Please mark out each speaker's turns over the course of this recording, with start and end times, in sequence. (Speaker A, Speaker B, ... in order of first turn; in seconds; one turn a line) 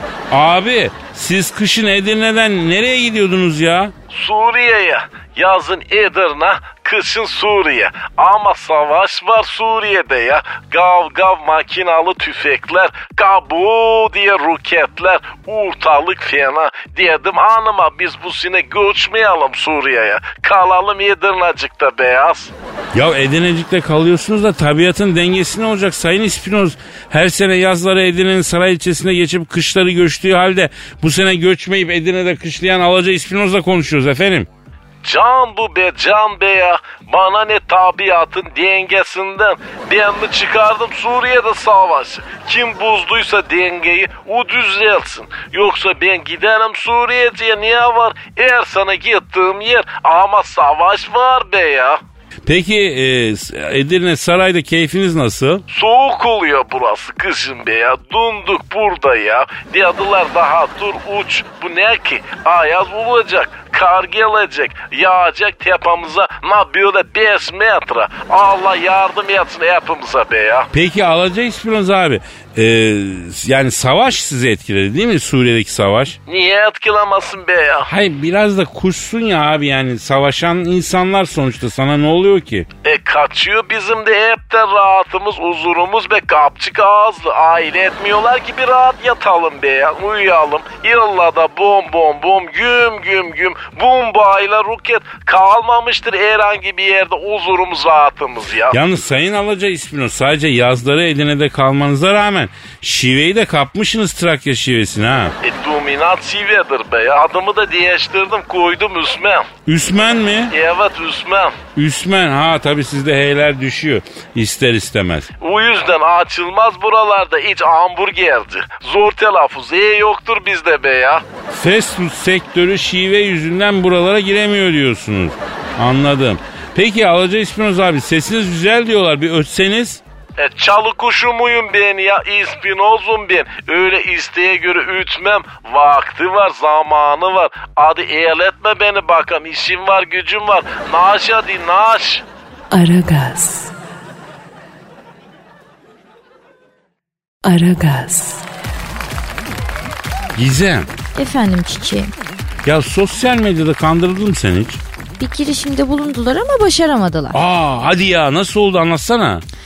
Speaker A: 0.3-3.9
Speaker B: 4.1-22.5
Speaker A: 22.9-34.5
Speaker B: 35.0-52.0
Speaker A: 52.5-55.6
Speaker B: 55.7-70.7
Speaker A: 70.7-76.2
Speaker B: 76.3-77.9
Speaker A: 77.9-82.7
Speaker B: 82.8-98.8
Speaker A: 98.7-105.3
Speaker B: 105.4-109.5
Speaker A: 109.7-110.5
Speaker B: 110.5-111.6
Speaker A: 111.8-115.3
Speaker B: 115.4-121.2
Speaker A: 121.5-130.0
Speaker B: 130.4-142.2
Speaker C: 142.7-143.7
Speaker C: 147.4-148.4
Speaker A: 150.3-150.9
Speaker D: 151.2-152.1
Speaker A: 152.6-154.8
Speaker D: 155.2-157.4
Speaker A: 157.3-159.4